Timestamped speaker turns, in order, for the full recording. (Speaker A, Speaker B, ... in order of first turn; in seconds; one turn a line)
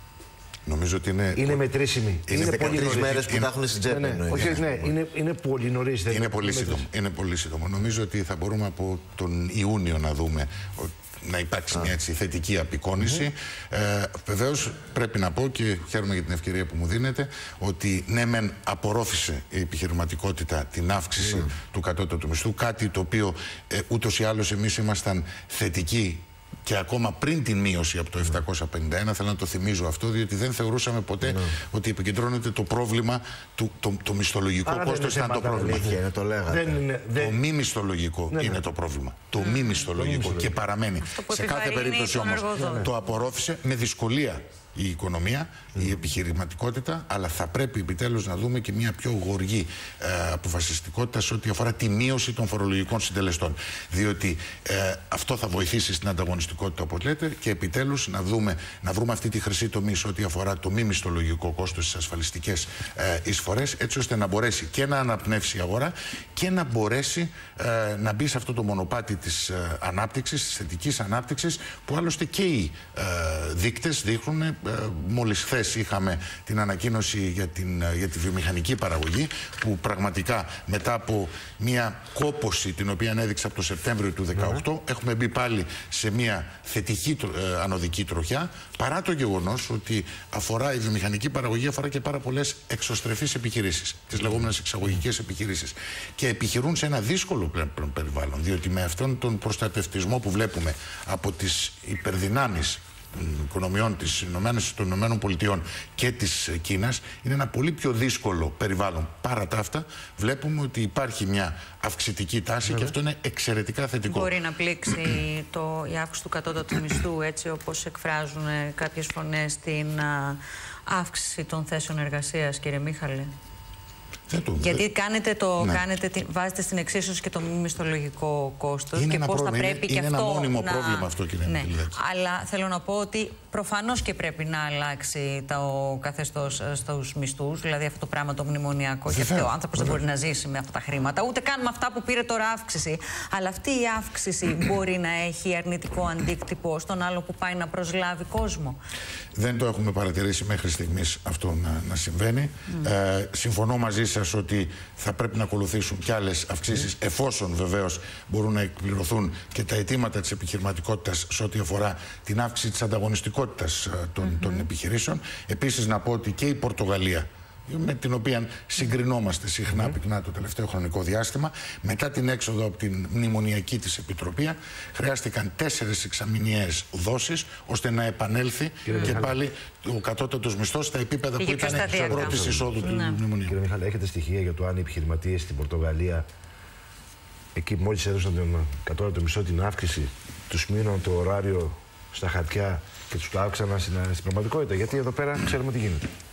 Speaker A: 0.6-1.6
Speaker B: 1.3-3.2
Speaker A: 2.3-3.5
Speaker C: 2.3-4.9
Speaker B: 3.8-6.9
Speaker A: 4.3-4.6
Speaker A: 6.1-35.9
Speaker B: 13.0-13.3
Speaker C: 21.2-21.5
Speaker C: 31.2-31.5
Speaker B: 34.6-37.4
Speaker C: 35.3-36.8
Speaker A: 37.1-114.3
Speaker B: 38.3-38.6
Speaker D: 39.4-39.9
Speaker B: 39.9-40.6
Speaker D: 41.0-43.0
Speaker B: 42.5-42.9
Speaker D: 114.1-123.3
Speaker A: 124.3-124.8
Speaker D: 124.6-148.8
Speaker A: 125.6-125.8
Speaker A: 128.9-132.0
Speaker A: 139.1-140.0
Speaker A: 149.3-183.5
Speaker D: 164.2-164.7
Speaker B: 169.7-170.0
Speaker B: 178.8-179.4
Speaker D: 178.9-179.2
Speaker D: 181.3-183.2
Speaker B: 181.7-182.8
Speaker B: 183.4-186.3
Speaker B: 187.5-196.1